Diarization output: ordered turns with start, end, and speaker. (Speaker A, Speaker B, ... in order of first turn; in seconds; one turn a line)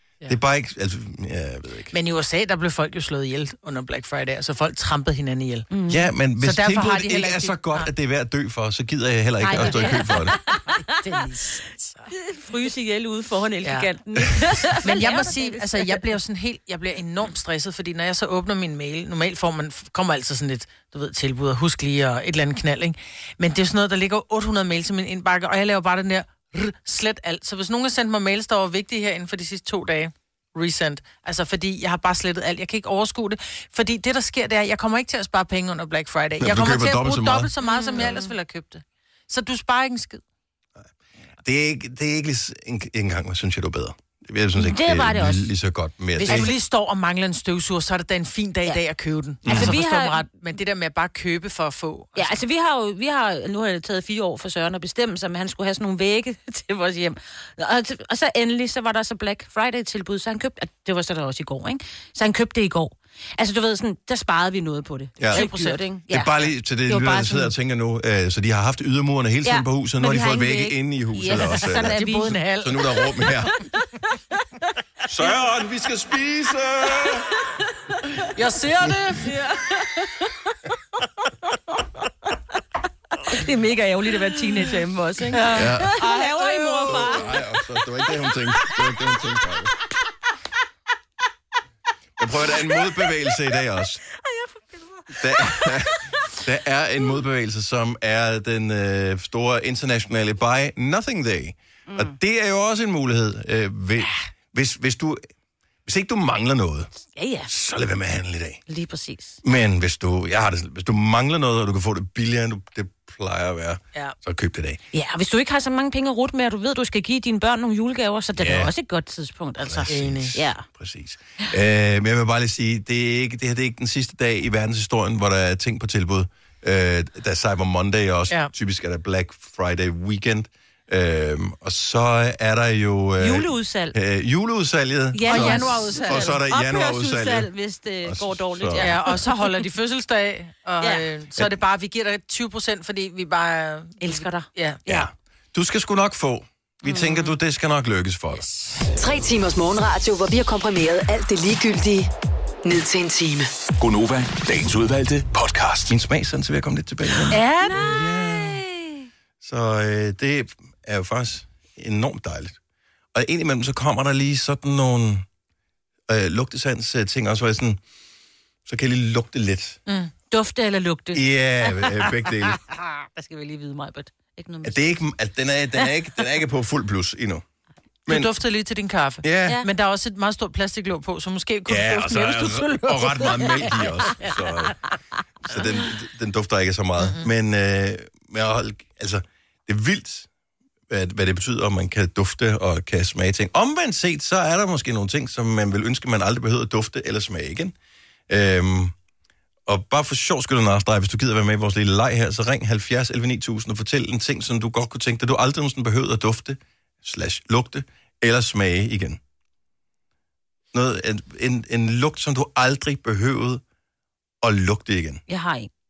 Speaker A: 0.2-1.9
Speaker B: 1.9-5.7
Speaker C: 5.7-6.1
Speaker A: 5.9-10.3
Speaker B: 6.4-7.9
Speaker C: 9.4-11.4
Speaker B: 9.5-10.1
Speaker B: 10.9-12.1
Speaker C: 12.1-16.1
Speaker B: 13.6-13.9
Speaker B: 14.8-40.2
Speaker A: 36.4-37.5
Speaker C: 37.6-38.3
Speaker A: 41.4-46.5
Speaker C: 44.5-45.5
Speaker C: 46.2-46.5
Speaker B: 46.2-52.4
Speaker A: 49.4-49.8
Speaker C: 49.5-50.2
Speaker C: 52.1-67.5
Speaker A: 65.2-65.4
Speaker B: 65.2-65.8
Speaker A: 66.1-73.5
Speaker C: 69.4-72.5
Speaker B: 71.2-72.9
Speaker A: 75.1-77.3
Speaker B: 78.3-79.3
Speaker C: 79.2-80.3
Speaker C: 83.2-87.4
Speaker B: 85.3-87.2
Speaker A: 85.5-85.9
Speaker A: 86.9-89.7
Speaker A: 92.2-94.0
Speaker C: 92.7-93.1
Speaker C: 94.2-96.0
Speaker A: 95.2-105.3
Speaker C: 101.9-102.2
Speaker A: 105.8-106.9
Speaker C: 107.1-107.5
Speaker A: 107.5-108.6
Speaker C: 108.7-109.4
Speaker A: 109.4-114.8
Speaker C: 114.9-120.6
Speaker A: 118.4-118.7
Speaker A: 119.6-137.5
Speaker B: 119.9-120.4
Speaker C: 133.2-133.9
Speaker C: 135.1-139.6
Speaker B: 135.2-136.4
Speaker A: 138.0-138.9
Speaker B: 138.8-144.8
Speaker C: 140.8-141.1
Speaker C: 144.0-145.0
Speaker A: 144.8-148.4
Speaker C: 146.8-147.3
Speaker D: 148.9-152.1
Speaker D: 152.6-153.5
Speaker E: 153.8-155.9
Speaker A: 155.9-158.6
Speaker C: 157.2-159.1
Speaker B: 157.3-157.8
Speaker A: 159.4-162.6
Speaker A: 163.1-165.2
Speaker A: 166.1-167.8
Speaker A: 168.7-169.8
Speaker B: 169.9-170.1
Speaker C: 170.3-172.0
Speaker A: 171.1-172.6
Speaker C: 173.0-174.9
Speaker A: 174.6-177.4
Speaker B: 178.1-184.3
Speaker A: 179.2-179.6
Speaker A: 181.7-184.8
Speaker A: 185.4-190.3
Speaker B: 187.0-187.3
Speaker A: 190.9-197.7
Speaker A: 198.3-198.9
Speaker A: 199.7-209.2
Speaker A: 210.7-213.6
Speaker A: 214.4-215.2
Speaker C: 215.3-215.7